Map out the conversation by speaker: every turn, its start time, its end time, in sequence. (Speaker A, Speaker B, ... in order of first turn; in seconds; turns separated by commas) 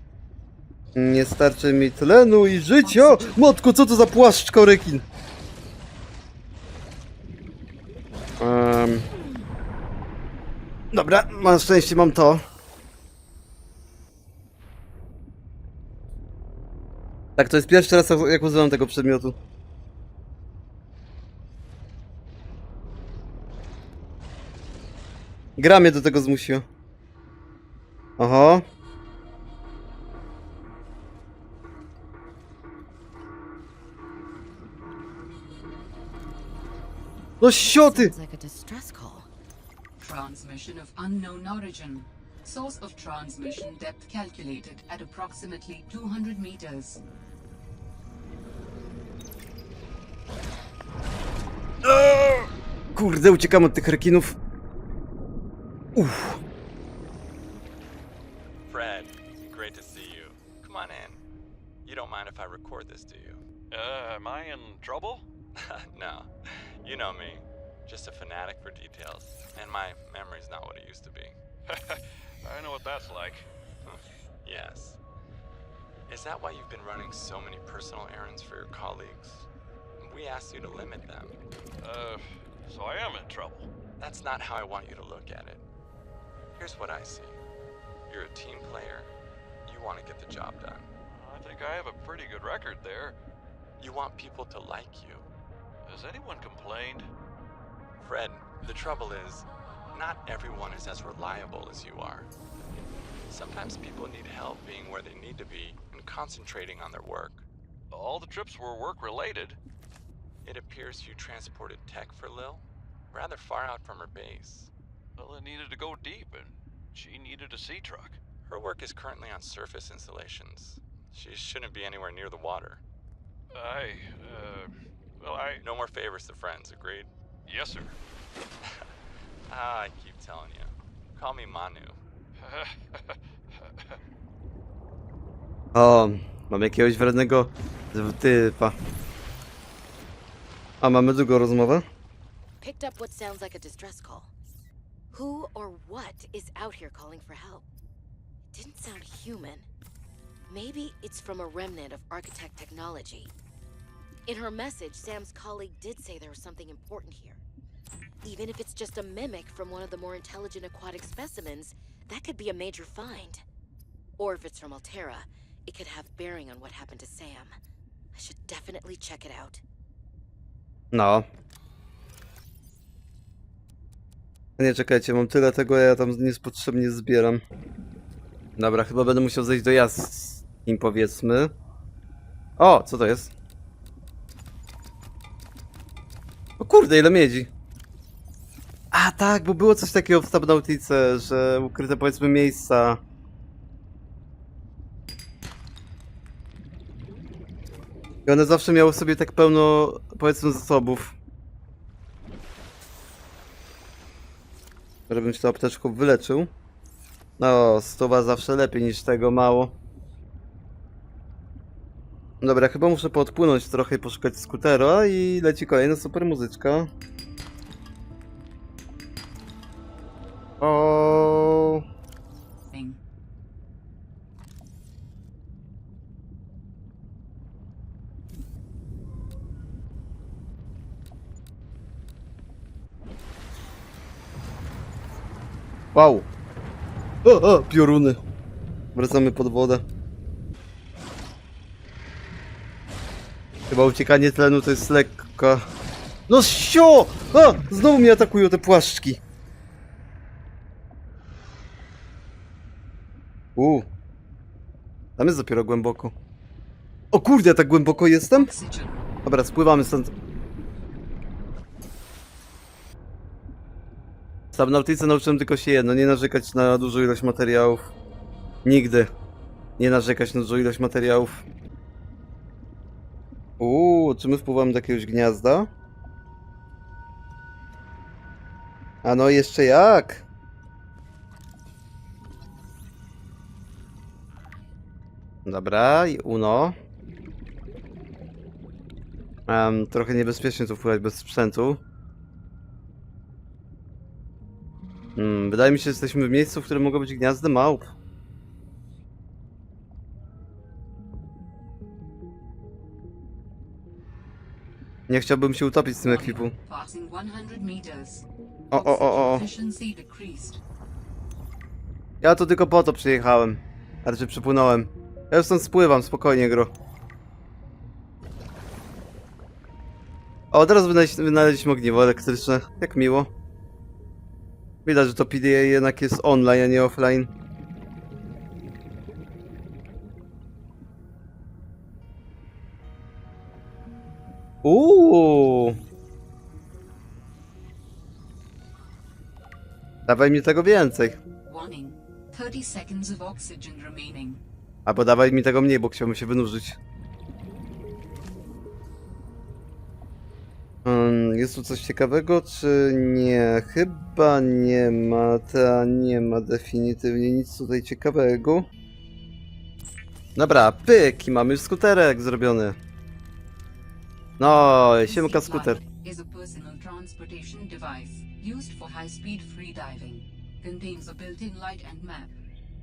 Speaker A: 0.9-5.0, Speaker B: 2.8-3.5, Speaker A: 8.4-9.1, Speaker A: 10.9-12.4, Speaker A: 17.4-19.4, Speaker A: 25.6-26.6, Speaker A: 28.2-28.6, Speaker A: 37.4-38.1, Speaker C: 37.6-39.3, Speaker B: 40.0-47.0, Speaker A: 51.8-54.4, Speaker A: 56.0-56.4, Speaker D: 58.7-61.2, Speaker D: 61.9-63.4, Speaker E: 63.7-65.3, Speaker D: 65.6-66.3, Speaker D: 66.8-71.3, Speaker E: 71.7-73.5, Speaker D: 73.9-75.0, Speaker D: 76.1-79.5, Speaker D: 80.0-81.4, Speaker E: 81.8-83.7, Speaker D: 84.0-85.6, Speaker D: 86.6-87.4, Speaker D: 88.1-89.1, Speaker D: 89.7-90.9, Speaker E: 91.1-93.2, Speaker D: 93.8-95.2, Speaker E: 95.8-97.1, Speaker D: 98.0-102.3, Speaker D: 103.3-107.4, Speaker E: 107.9-109.6, Speaker D: 110.5-114.7, Speaker E: 115.2-118.2, Speaker D: 118.5-122.8, Speaker E: 123.5-125.6, Speaker D: 125.6-127.1, Speaker E: 127.5-128.0, Speaker D: 129.5-132.0, Speaker E: 132.4-134.0, Speaker A: 135.8-138.7, Speaker A: 140.8-141.8, Speaker C: 142.6-144.3, Speaker C: 145.1-147.7, Speaker C: 148.5-149.7, Speaker C: 150.5-153.3, Speaker C: 154.3-157.4, Speaker C: 158.2-163.4, Speaker C: 164.2-167.5, Speaker C: 168.2-169.6, Speaker A: 170.9-171.3, Speaker A: 174.6-177.4, Speaker A: 178.6-181.5, Speaker A: 182.6-183.3, Speaker A: 186.6-187.5, Speaker A: 188.9-193.0, Speaker A: 198.3-201.2, Speaker A: 205.1-206.5, Speaker A: 207.4-209.7, Speaker A: 212.4-216.9, Speaker A: 220.6-221.8, Speaker B: 222.7-223.0, Speaker A: 235.9-236.3, Speaker A: 237.2-238.2, Speaker A: 238.9-239.8, Speaker A: 243.7-245.7, Speaker A: 246.3-249.2, Speaker A: 253.6-253.9, Speaker A: 255.2-256.1, Speaker A: 257.1-258.5, Speaker B: 258.3-259.1, Speaker A: 259.2-260.1, Speaker A: 264.5-267.9, Speaker A: 268.6-269.1, Speaker A: 269.8-271.4, Speaker A: 273.6-275.7, Speaker A: 279.0-280.2, Speaker A: 285.5-286.7, Speaker A: 289.5-291.8, Speaker A: 295.2-297.9, Speaker A: 305.1-306.5, Speaker B: 306.0-310.6, Speaker A: 308.7-309.4, Speaker A: 312.2-316.7, Speaker A: 320.5-323.3, Speaker A: 324.9-327.3, Speaker A: 334.6-335.8, Speaker A: 340.1-341.2, Speaker B: 341.4-344.4, Speaker A: 344.9-346.8, Speaker A: 350.9-358.7, Speaker A: 360.4-362.8, Speaker A: 364.4-365.8, Speaker B: 364.8-372.3